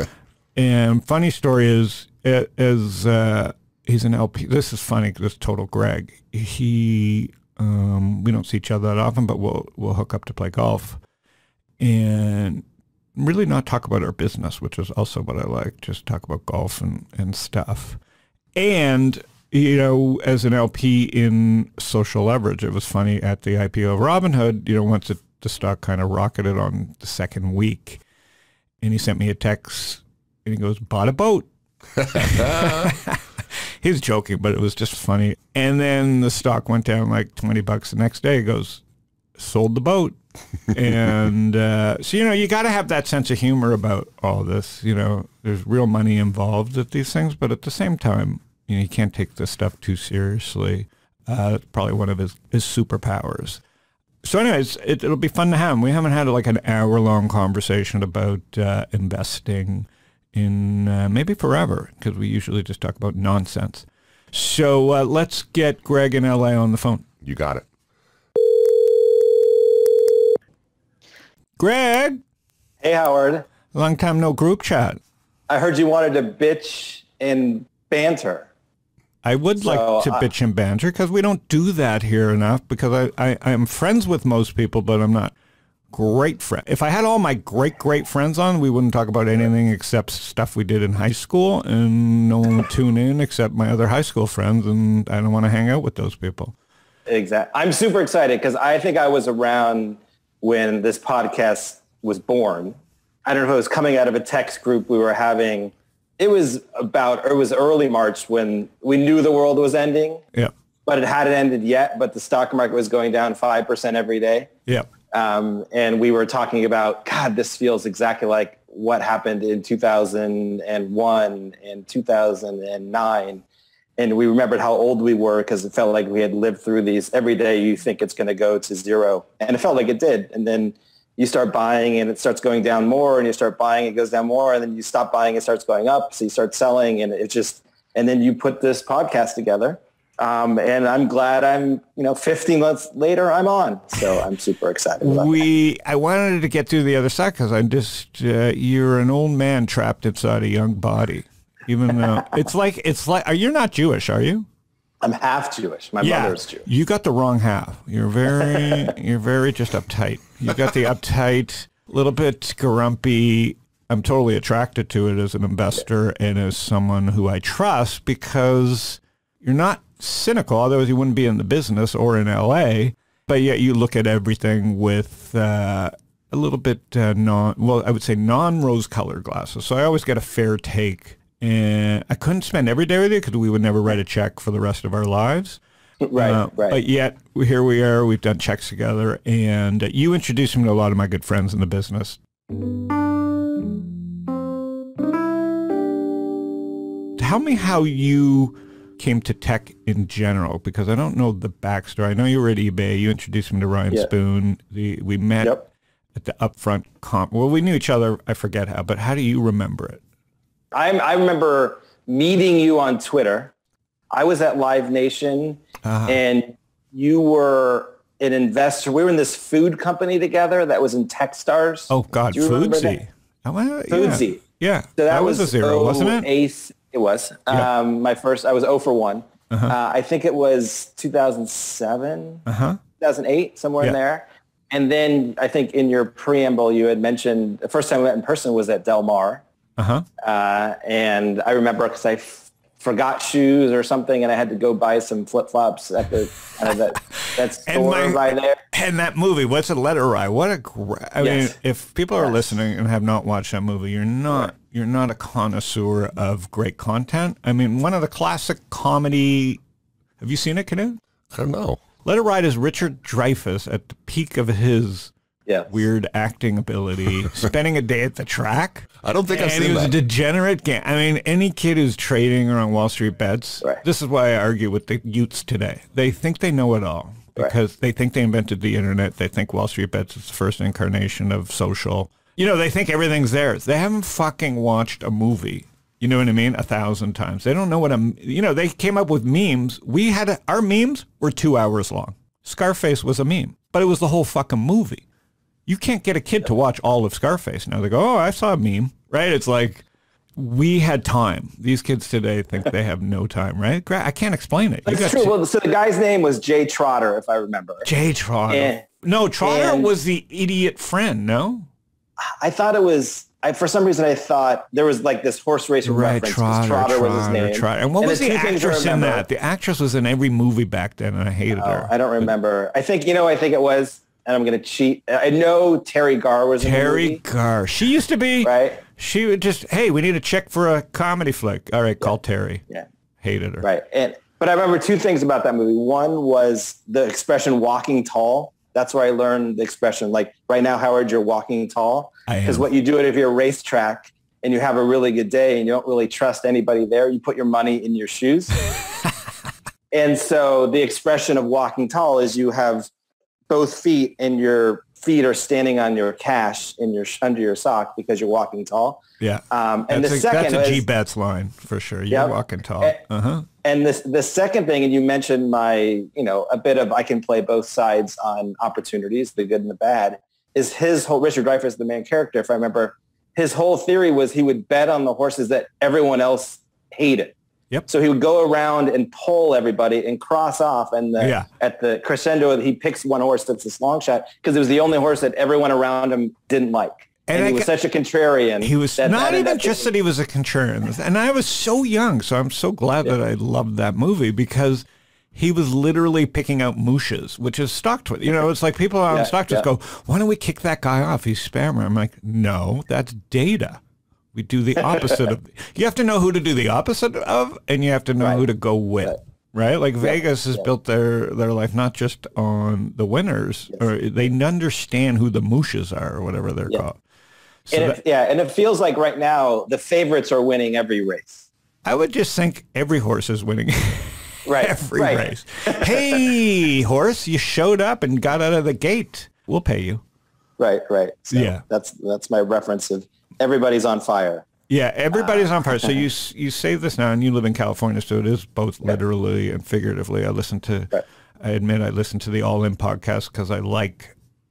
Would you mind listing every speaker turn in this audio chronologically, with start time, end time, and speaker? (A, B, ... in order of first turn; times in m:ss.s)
0:00.6-0:11.0 A
0:11.8-0:12.6 A
0:13.2-0:18.0 A
0:18.5-0:28.0 A
0:28.8-0:31.5 A
0:32.0-0:33.2 A
0:32.4-0:32.9 B
0:33.8-0:38.8 A
0:39.4-0:40.1 A
0:40.7-0:53.6 A
0:54.2-1:07.0 A
1:07.2-1:07.6 B
1:11.6-1:12.2 A
1:12.8-1:13.4 C
1:13.7-1:15.0 A
1:15.5-1:18.5 C
1:19.2-1:25.3 A
1:19.6-1:20.3 C
1:25.9-1:36.5 A
1:37.1-1:50.2 C
1:50.8-1:54.5 C
1:55.1-2:03.4 C
2:04.0-2:25.4 C
2:25.0-2:34.4 A
2:35.0-2:36.6 C
2:36.0-3:05.6 A
3:06.0-3:06.8 C
3:06.2-3:12.2 A
3:17.2-3:25.6 A
3:26.1-3:30.0 A
3:30.7-3:33.5 C
3:34.1-3:43.0 C
3:35.8-3:36.2 A
3:41.9-3:46.3 A
3:43.9-3:44.4 C
3:45.0-3:52.4 C
3:52.4-3:52.8 A
3:53.0-3:59.4 C
3:59.8-4:00.0 A
4:00.2-4:08.6 C
4:06.7-4:19.6 A
4:11.2-4:11.5 C
4:12.1-4:12.6 C
4:20.2-4:21.0 A
4:21.3-4:21.8 B
4:22.0-4:25.1 A
4:25.7-4:55.0 A
4:29.0-4:29.9 B
4:55.7-4:59.8 A
5:00.4-5:05.3 A
5:04.8-5:07.9 C
5:07.8-5:11.7 A
5:08.5-5:08.8 C
5:09.4-5:09.9 C
5:12.2-5:19.2 C
5:15.8-5:21.9 A
5:21.5-5:27.2 C
5:26.6-5:32.6 A
5:28.4-5:28.8 C
5:33.2-5:33.7 A
5:33.6-5:48.6 C
5:42.3-5:42.6 A
5:49.9-5:52.9 C
5:53.5-6:00.8 C
5:59.2-6:03.4 A
6:02.1-6:03.0 C
6:03.6-6:17.3 C
6:17.9-6:29.9 C
6:21.2-6:21.5 A
6:27.3-6:27.7 A
6:28.6-6:43.8 A
6:39.1-6:39.7 C
6:44.3-6:57.0 A
6:50.0-6:50.6 C
6:57.7-6:58.0 A
6:57.7-7:01.5 C
7:01.8-7:10.0 A
7:04.4-7:06.2 C
7:10.6-7:14.4 C
7:11.3-7:11.6 A
7:14.7-7:24.1 A
7:15.1-7:15.9 C